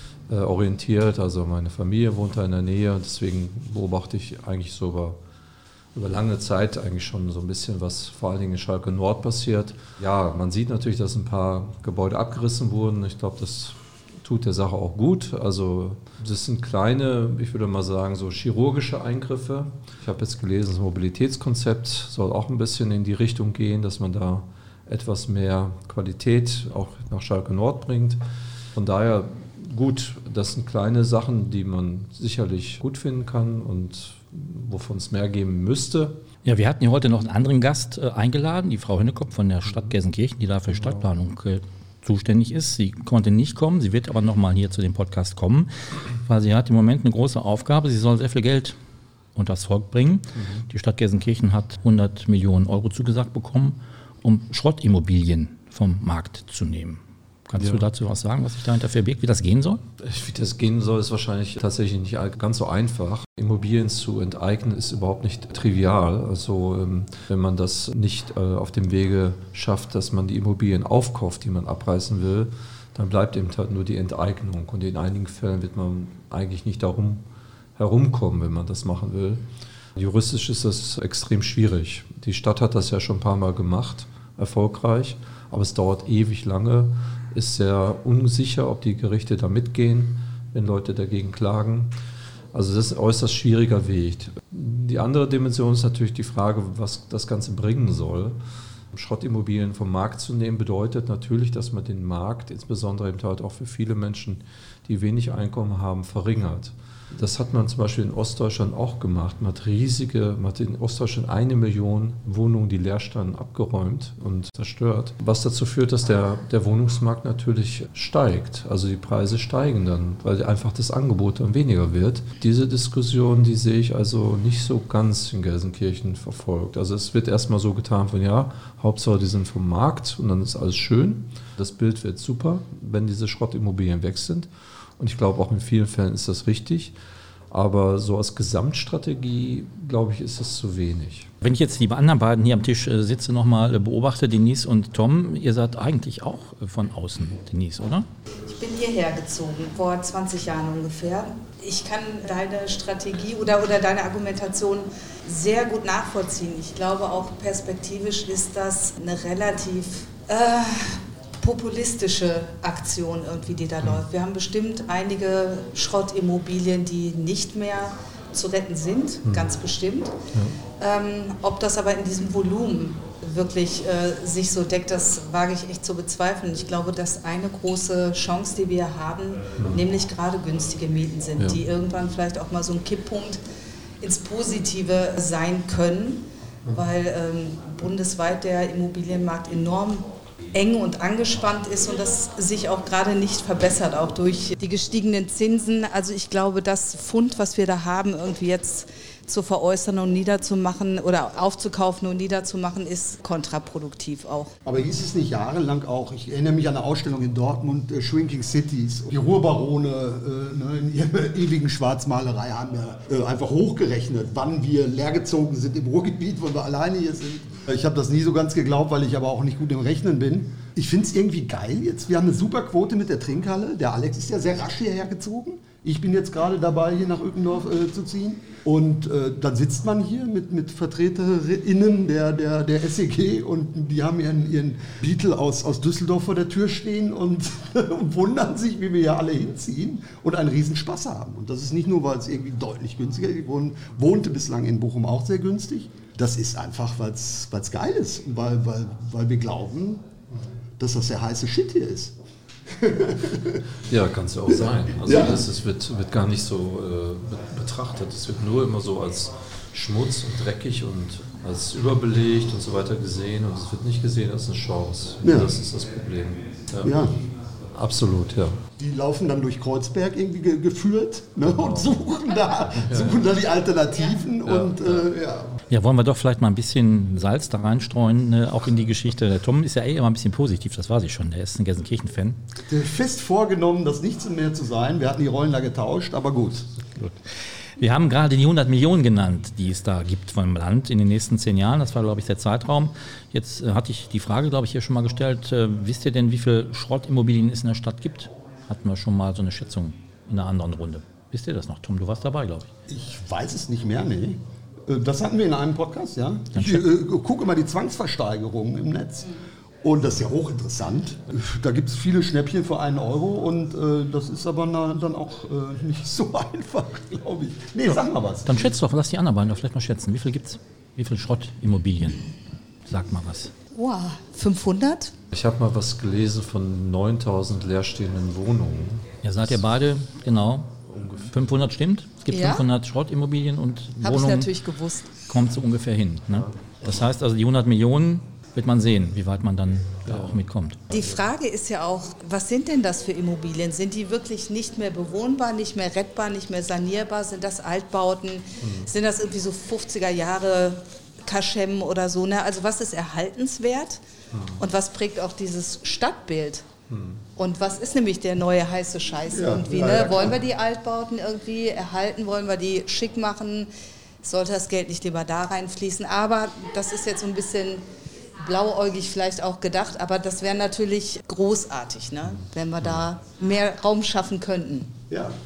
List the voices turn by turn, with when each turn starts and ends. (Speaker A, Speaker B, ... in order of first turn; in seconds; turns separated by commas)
Speaker A: 0.3-5.2, Speaker A: 6.0-28.2, Speaker A: 28.7-36.2, Speaker B: 36.4-48.8, Speaker B: 49.4-59.8, Speaker A: 50.4-50.7, Speaker A: 57.6-57.8, Speaker A: 60.0-77.2, Speaker A: 77.8-79.4, Speaker A: 80.0-91.9, Speaker A: 92.5-98.4, Speaker A: 98.9-136.9, Speaker A: 137.5-141.3, Speaker B: 141.4-148.1, Speaker C: 148.4-170.1, Speaker A: 169.3-169.6, Speaker C: 170.8-183.4, Speaker C: 184.0-204.5, Speaker D: 204.7-250.1, Speaker D: 250.8-252.2, Speaker D: 252.7-253.6, Speaker A: 253.8-267.0, Speaker D: 254.5-255.5, Speaker D: 265.2-265.6, Speaker D: 266.8-267.1, Speaker A: 267.7-268.6, Speaker D: 268.8-275.5, Speaker A: 271.4-272.0, Speaker A: 272.8-273.2, Speaker A: 274.4-275.1, Speaker B: 275.7-282.4, Speaker D: 282.7-286.7, Speaker B: 287.8-302.7, Speaker D: 302.9-318.7, Speaker B: 306.5-306.9, Speaker B: 318.5-322.3, Speaker B: 322.9-323.5, Speaker C: 323.7-325.1, Speaker A: 325.3-329.1, Speaker B: 329.2-330.8, Speaker A: 330.9-331.6, Speaker B: 331.3-334.5, Speaker C: 332.3-332.7, Speaker C: 334.0-335.2, Speaker B: 335.3-340.8, Speaker A: 340.1-341.2, Speaker C: 340.9-354.0, Speaker A: 348.6-348.9, Speaker A: 354.3-354.6, Speaker C: 354.6-356.7, Speaker A: 356.9-357.2, Speaker C: 357.4-363.7, Speaker D: 359.3-360.4, Speaker C: 364.2-367.8, Speaker C: 368.4-374.9, Speaker D: 375.1-375.4